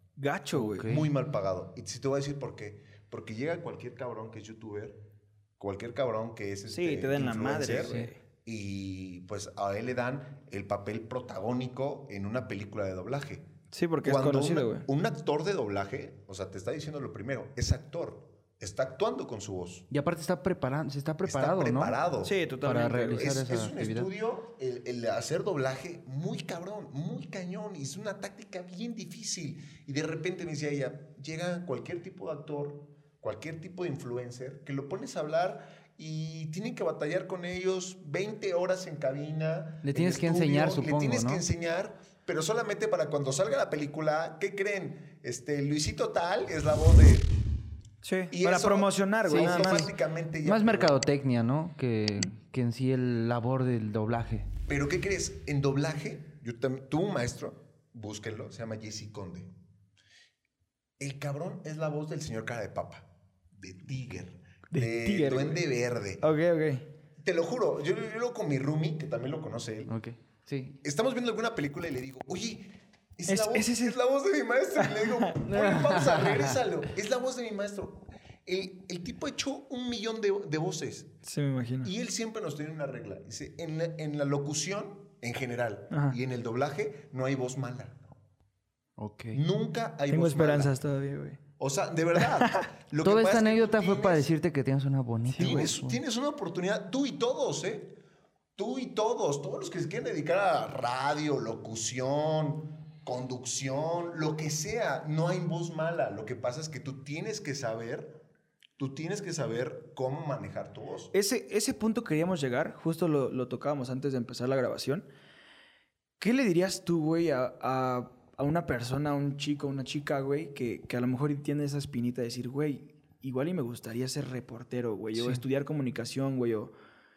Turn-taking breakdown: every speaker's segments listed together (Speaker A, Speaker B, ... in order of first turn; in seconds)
Speaker A: 0.2-0.9, 6.7-8.2, 13.7-14.9, 22.2-23.4, 48.0-49.9, 64.7-65.6, 66.2-66.8, 73.3-74.0, 74.8-75.4, 81.2-81.9, 85.9-86.2, 90.1-91.4, 92.3-92.7, 95.4-95.7, 111.1-115.1, 116.2-126.7
Speaker B: 0.5-1.1, 7.8-8.1, 19.9-22.0, 22.6-24.1, 39.8-41.4, 49.3-49.9, 50.4-54.5, 69.9-70.8, 75.5-76.6, 89.0-89.4, 93.0-96.0, 125.2-125.4
Speaker C: 0.8-5.0, 5.6-13.5, 14.0-19.9, 21.2-22.4, 23.1-47.4, 48.3-51.0, 54.7-59.5, 61.0-66.2, 67.2-69.9, 70.8-81.1, 81.8-88.0, 89.3-90.7, 91.6-94.3, 95.4-97.9, 98.6-108.2, 108.8-111.1